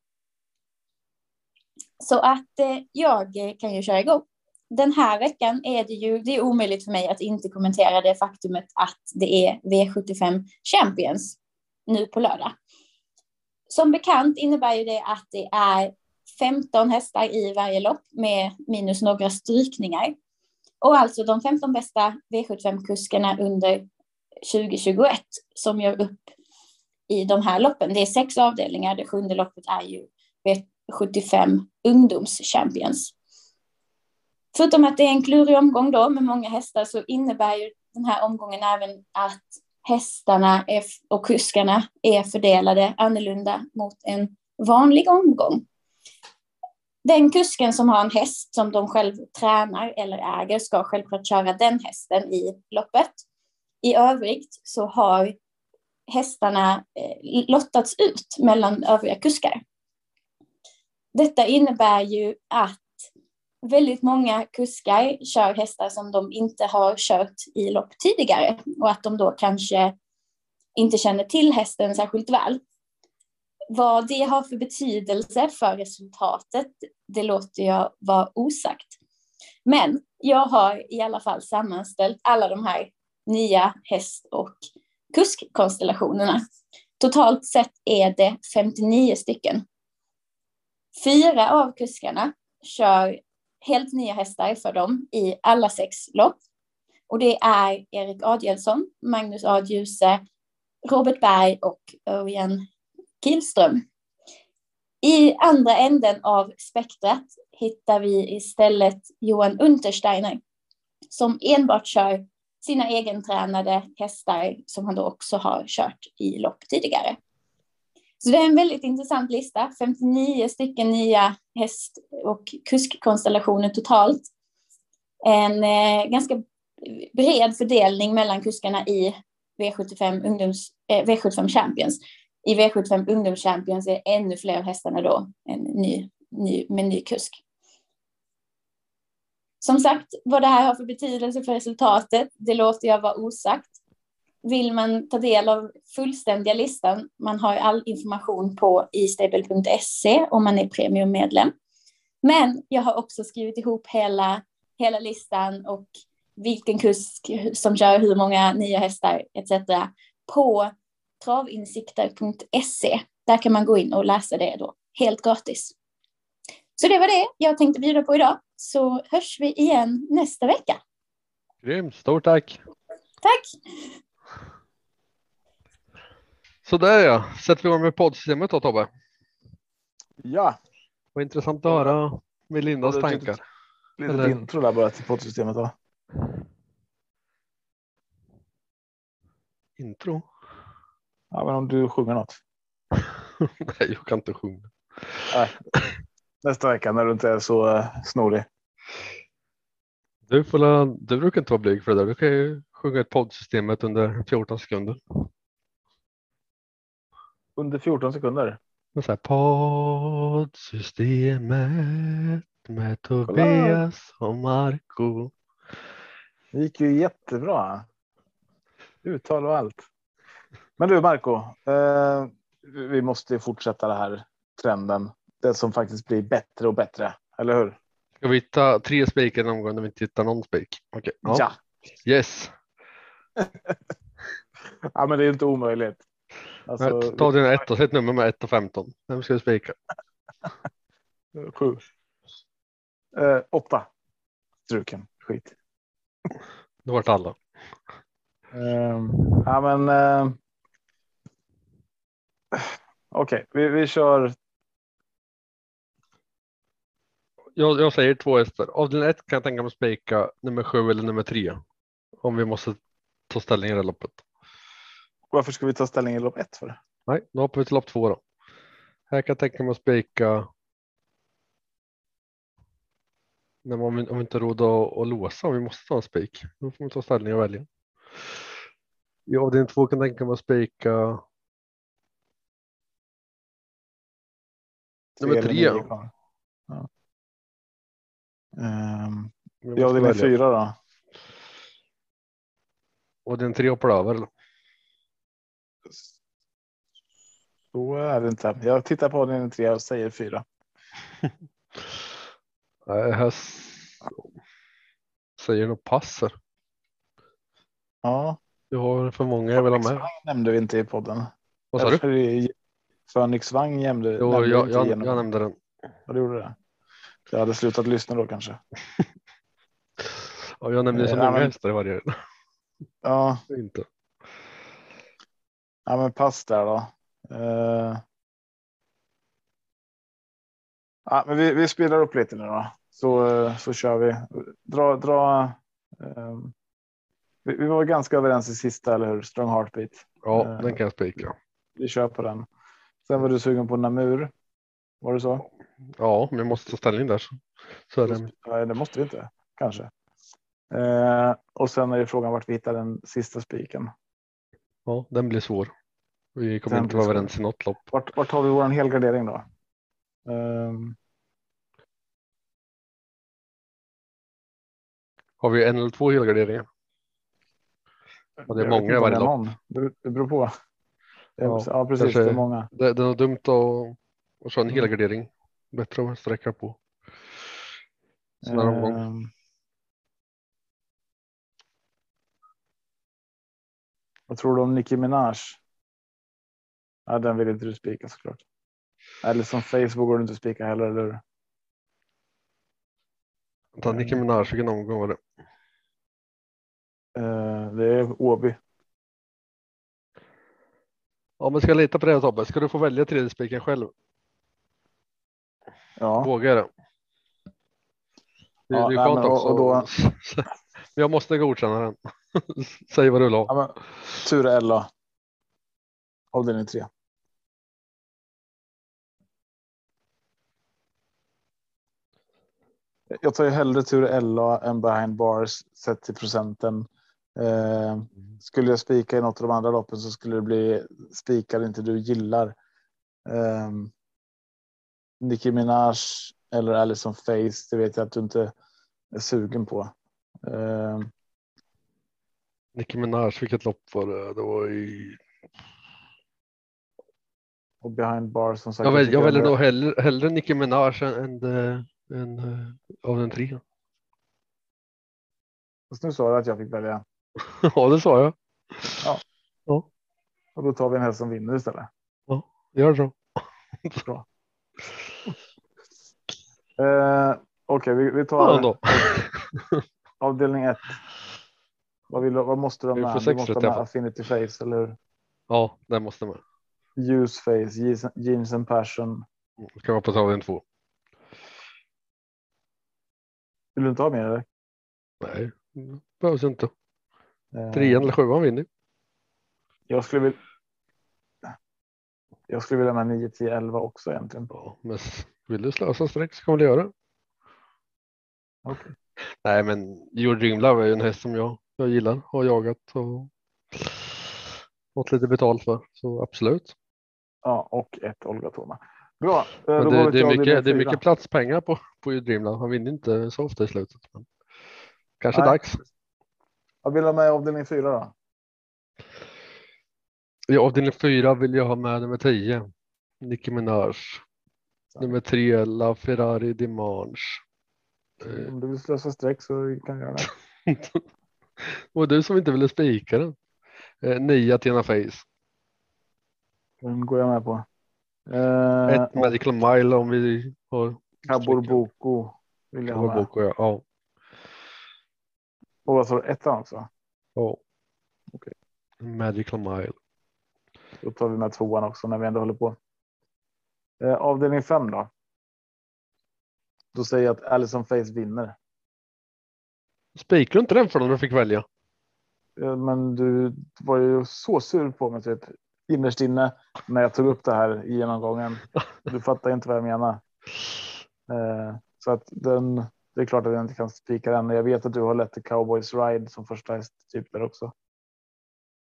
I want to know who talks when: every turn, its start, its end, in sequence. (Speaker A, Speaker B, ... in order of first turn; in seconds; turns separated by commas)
Speaker A: 2.0-12.5, Speaker A: 13.7-20.1, Speaker A: 20.8-23.9, Speaker A: 24.4-26.2, Speaker A: 27.1-33.1, Speaker A: 34.5-45.6, Speaker A: 47.0-53.2, Speaker A: 53.8-55.4, Speaker A: 56.1-59.6, Speaker A: 61.1-62.9, Speaker A: 63.6-69.9, Speaker A: 70.8-72.6, Speaker A: 73.7-79.0, Speaker A: 79.7-84.6, Speaker A: 85.1-86.4, Speaker A: 87.0-89.6, Speaker A: 91.0-96.4, Speaker A: 97.1-100.2, Speaker A: 100.8-102.7, Speaker A: 103.2-103.8, Speaker A: 105.0-110.4, Speaker A: 111.1-117.2, Speaker A: 118.2-124.3, Speaker A: 125.2-137.4, Speaker A: 139.6-143.8, Speaker A: 144.4-151.5, Speaker A: 152.2-165.7, Speaker A: 166.8-170.8, Speaker B: 171.6-172.6, Speaker A: 173.2-173.6, Speaker B: 176.6-178.9, Speaker C: 180.2-180.6, Speaker B: 181.1-183.4, Speaker C: 182.8-183.3, Speaker C: 184.0-185.7, Speaker B: 184.1-184.3, Speaker B: 189.8-190.3, Speaker C: 191.3-192.4, Speaker B: 193.0-195.8, Speaker C: 195.3-195.6, Speaker C: 196.4-198.4, Speaker B: 200.3-205.3, Speaker C: 207.6-208.6, Speaker B: 208.9-215.3, Speaker C: 213.3-213.8, Speaker C: 216.5-217.8, Speaker C: 219.0-219.8, Speaker C: 220.8-227.8, Speaker B: 228.2-231.4, Speaker C: 231.2-231.6, Speaker B: 232.0-232.5, Speaker C: 234.9-236.0, Speaker C: 236.7-237.3, Speaker B: 236.8-239.8, Speaker C: 241.4-241.8, Speaker C: 243.2-243.9, Speaker C: 244.7-245.5, Speaker B: 246.8-247.4, Speaker C: 248.5-250.4, Speaker C: 252.5-254.3, Speaker B: 257.6-261.6, Speaker B: 262.2-262.8, Speaker B: 263.3-264.2, Speaker C: 265.3-266.8, Speaker B: 267.1-268.2, Speaker B: 269.1-270.5, Speaker B: 273.6-277.7, Speaker B: 279.3-281.2, Speaker B: 285.2-285.9, Speaker C: 285.2-286.1, Speaker C: 288.6-290.7, Speaker B: 289.6-290.3, Speaker B: 293.2-294.3, Speaker C: 297.7-300.4, Speaker B: 302.9-304.2, Speaker B: 305.4-306.3, Speaker C: 308.0-308.4, Speaker B: 308.7-310.1, Speaker C: 309.5-312.5, Speaker B: 311.7-312.0, Speaker C: 313.1-315.2, Speaker B: 314.2-315.6, Speaker C: 316.1-316.5, Speaker C: 317.3-318.6, Speaker B: 320.0-322.1, Speaker C: 320.9-321.5, Speaker C: 323.0-323.4, Speaker B: 323.5-323.9, Speaker C: 325.9-328.0, Speaker C: 331.1-336.5, Speaker C: 337.4-340.8, Speaker B: 340.2-341.4, Speaker C: 341.8-342.5, Speaker C: 343.1-344.3, Speaker C: 345.0-345.4, Speaker B: 346.0-348.3, Speaker C: 348.0-349.9, Speaker C: 350.7-353.9, Speaker B: 354.9-355.7, Speaker B: 356.4-357.8, Speaker C: 356.7-357.3, Speaker C: 357.9-359.4, Speaker C: 360.2-361.0, Speaker B: 365.4-366.6, Speaker C: 368.4-370.5, Speaker B: 368.5-369.3, Speaker C: 371.4-372.7, Speaker B: 371.4-376.8, Speaker C: 378.4-379.3, Speaker B: 378.5-379.0, Speaker C: 384.3-385.6, Speaker C: 387.1-388.4, Speaker C: 389.2-391.2, Speaker B: 393.8-395.2, Speaker C: 393.8-394.2, Speaker C: 397.1-398.6, Speaker B: 401.4-403.9, Speaker C: 406.0-406.3, Speaker B: 406.2-406.7, Speaker B: 408.7-413.5, Speaker C: 408.7-409.9, Speaker C: 413.5-414.9, Speaker C: 416.3-416.9, Speaker C: 423.1-432.5, Speaker C: 433.3-433.9, Speaker C: 435.2-438.5, Speaker C: 439.1-441.1, Speaker B: 442.8-445.2, Speaker C: 447.8-449.5, Speaker B: 448.8-453.6, Speaker C: 455.9-457.0, Speaker B: 457.5-459.0, Speaker C: 460.6-461.9, Speaker B: 462.3-464.0, Speaker C: 466.8-469.2, Speaker B: 468.4-469.8, Speaker C: 470.2-471.0, Speaker C: 472.1-474.9, Speaker B: 472.9-473.8, Speaker B: 475.5-476.4, Speaker C: 477.0-479.2, Speaker B: 479.6-480.6, Speaker C: 483.7-484.4, Speaker B: 485.2-486.7, Speaker C: 487.5-488.1, Speaker B: 487.7-488.7, Speaker C: 489.9-490.4, Speaker C: 492.5-494.5, Speaker B: 494.5-496.9, Speaker C: 498.6-498.9, Speaker B: 499.4-504.4, Speaker B: 504.9-506.7, Speaker C: 507.4-511.0, Speaker B: 509.8-514.3, Speaker B: 515.2-515.8, Speaker C: 515.3-515.8, Speaker C: 516.8-518.1, Speaker B: 520.5-522.6, Speaker B: 523.2-524.2, Speaker B: 525.0-527.4, Speaker C: 528.2-530.3, Speaker B: 528.2-528.5, Speaker B: 530.2-531.0, Speaker B: 531.6-533.4, Speaker B: 534.0-535.2, Speaker C: 536.8-537.6, Speaker C: 538.3-539.3, Speaker B: 538.9-541.8, Speaker C: 541.2-543.3, Speaker B: 542.9-543.8, Speaker C: 545.9-546.9, Speaker B: 549.0-550.0, Speaker C: 551.0-552.8, Speaker C: 554.0-555.1, Speaker C: 556.9-558.5, Speaker B: 560.1-561.6, Speaker C: 562.6-570.2, Speaker C: 571.3-577.7